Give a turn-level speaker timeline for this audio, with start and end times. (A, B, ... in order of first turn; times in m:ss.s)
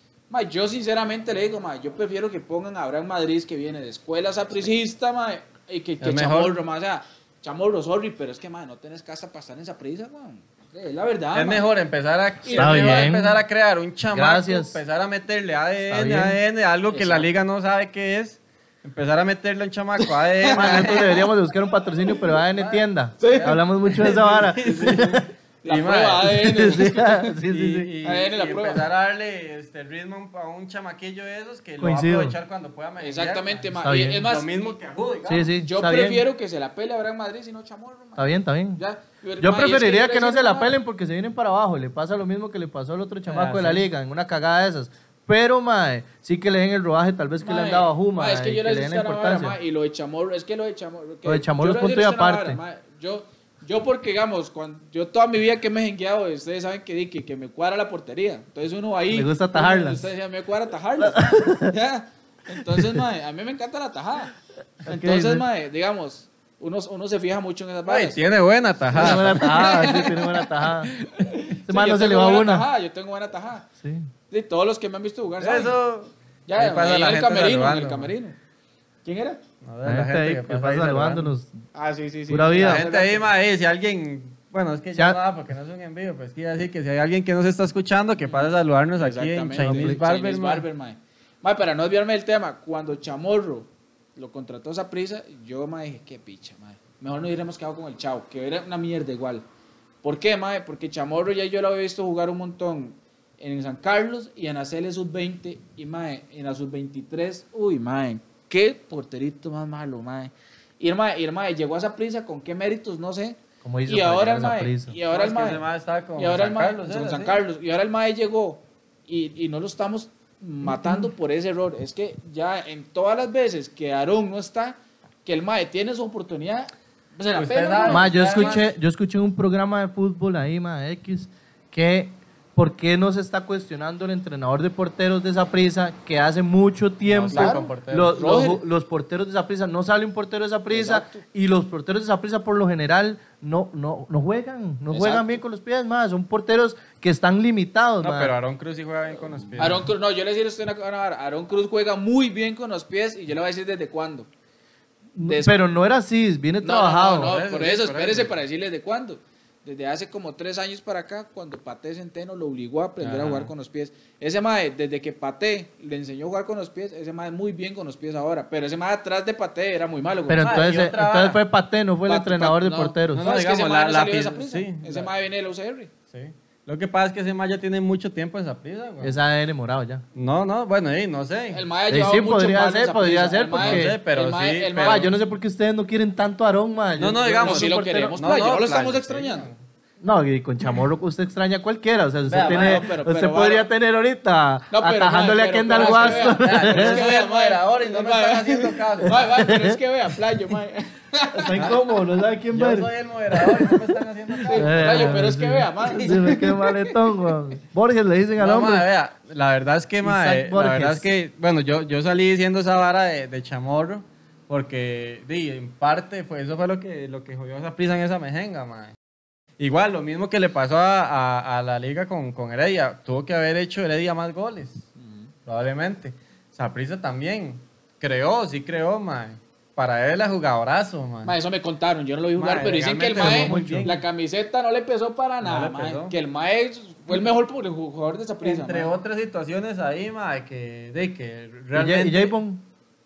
0:00.3-0:11.7 A
0:06.0-0:06.6 B
0:11.3-0:21.3 B
0:12.4-0:13.1 A
0:12.6-0:13.4 C
0:14.1-0:14.8 C
0:15.9-0:16.4 C
0:16.9-0:17.3 A
0:20.0-0:21.1 A
0:20.5-0:25.3 C
0:22.5-0:26.6 B
0:23.2-0:25.0 A
0:25.6-0:27.4 A
0:26.2-0:27.9 C
0:27.5-0:35.5 B
0:28.0-0:28.8 A
0:31.8-0:32.4 C
0:33.0-0:34.8 A
0:33.8-0:34.3 C
0:35.3-0:36.2 C
0:35.6-0:40.7 A
0:38.2-0:38.8 C
0:39.4-0:49.6 C
0:43.3-0:43.9 B
0:47.4-1:04.3 A
0:51.2-0:52.6 C
0:59.1-1:00.1 C
1:01.0-1:01.7 C
1:02.7-1:03.0 C
1:04.9-1:05.4 C
1:04.9-1:08.2 A
1:07.9-1:09.9 B
1:08.9-1:11.0 C
1:08.9-1:13.7 A
1:11.7-1:12.7 C
1:13.8-1:14.1 C
1:14.3-1:15.8 A
1:15.4-1:18.1 B
1:16.5-1:18.4 A
1:19.0-1:19.4 A
1:19.6-1:21.3 B
1:19.8-1:21.6 C
1:21.7-1:23.2 A
1:22.3-1:22.8 C
1:22.6-1:30.7 B
1:28.3-1:39.4 A
1:29.6-1:30.0 C
1:40.0-1:55.6 A
1:53.6-1:55.0 C
1:55.1-1:57.4 B
1:56.2-2:08.6 A
2:07.4-2:08.7 B
2:07.9-2:28.3 C
2:17.1-2:18.2 B
2:17.3-2:18.6 A
2:20.7-2:21.2 A
2:24.9-2:25.4 A
2:28.0-2:29.9 B
2:29.6-2:34.3 A
2:35.2-2:37.4 C
2:35.3-2:35.6 A
2:36.6-2:50.6 A
2:37.2-2:38.4 B
2:43.0-2:43.5 B
2:50.3-2:53.3 C
2:50.4-2:51.4 B
2:52.1-2:55.9 A
2:53.1-2:55.1 B
2:56.1-2:59.2 B
2:59.0-3:00.0 C
3:00.2-3:01.6 B
3:01.5-3:05.1 A
3:01.9-3:04.0 C
3:03.6-3:05.1 B
3:04.8-3:08.2 C
3:07.0-3:09.6 B
3:07.4-3:09.5 A
3:10.0-3:17.1 C
3:12.3-3:12.9 B
3:12.4-3:13.7 A
3:14.7-3:21.8 A
3:15.7-3:19.5 B
3:19.2-3:19.8 C
3:21.4-3:22.9 C
3:21.5-3:21.8 B
3:22.5-3:25.2 B
3:24.4-3:27.1 A
3:24.6-3:28.9 C
3:25.9-3:26.4 B
3:28.4-3:39.0 B
3:30.0-3:31.1 C
3:39.6-3:44.9 B
3:45.0-3:45.3 A
3:45.5-3:51.4 B
3:51.2-3:58.9 A
3:52.4-3:54.0 B
3:53.2-3:53.9 C
3:55.4-3:56.2 B
3:58.4-4:02.4 B
4:01.8-4:02.6 C